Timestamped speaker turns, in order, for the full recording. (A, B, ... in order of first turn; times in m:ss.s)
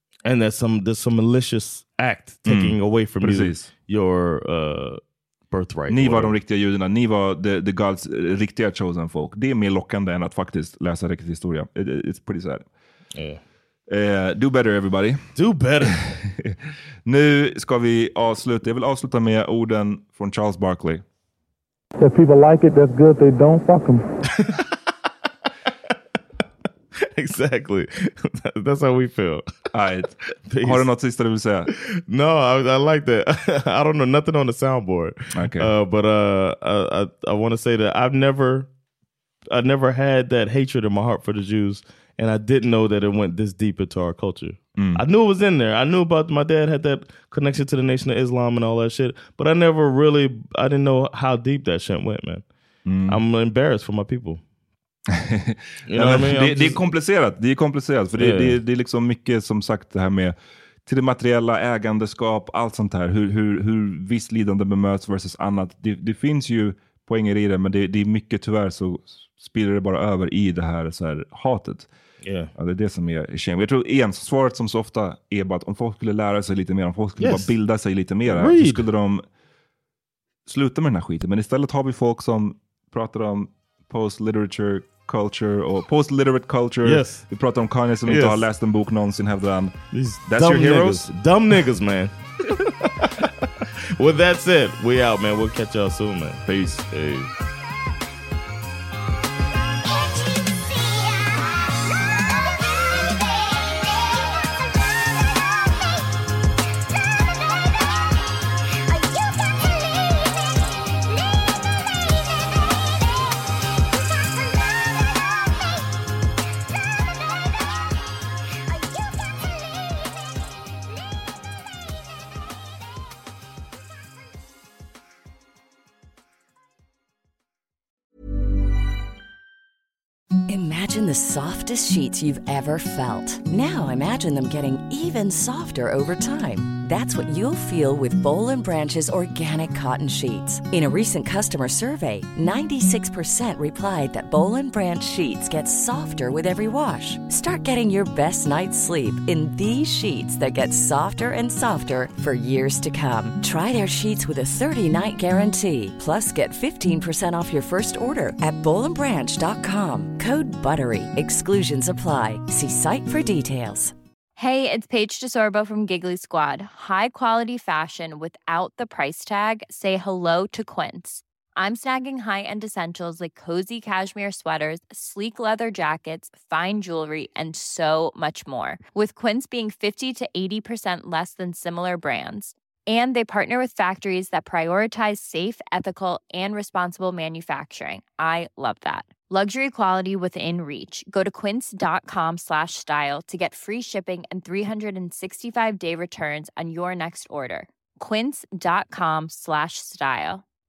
0:00.2-0:06.4 A
0:02.4-0:03.7 B
0:05.9-0:12.6 B
0:13.1-0:13.4 A
0:13.9-0:15.2 B
0:15.3-0:16.0 A
0:15.8-0:21.0 B
0:22.0-0:24.0 C
0:24.3-0:24.7 A
0:27.1-0:29.4 A
0:29.7-0:31.7 B
0:30.5-0:30.8 A
0:32.1-0:38.7 A
0:35.3-0:35.7 B
0:39.5-0:52.4 A
0:44.8-0:45.0 B
0:52.8-0:53.2 B
0:53.1-0:54.4 A
0:55.1-1:11.9 B
0:55.9-0:56.8 A
0:58.2-0:58.6 A
1:12.2-1:12.5 A
1:12.5-1:19.2 B
1:17.2-1:17.5 A
1:18.2-1:18.8 A
1:20.4-1:31.1 B
1:26.8-1:27.2 A
1:28.0-1:28.4 A
1:29.9-1:37.3 A
1:36.4-1:36.9 B
2:10.5-2:43.9 D
2:44.4-3:20.4 E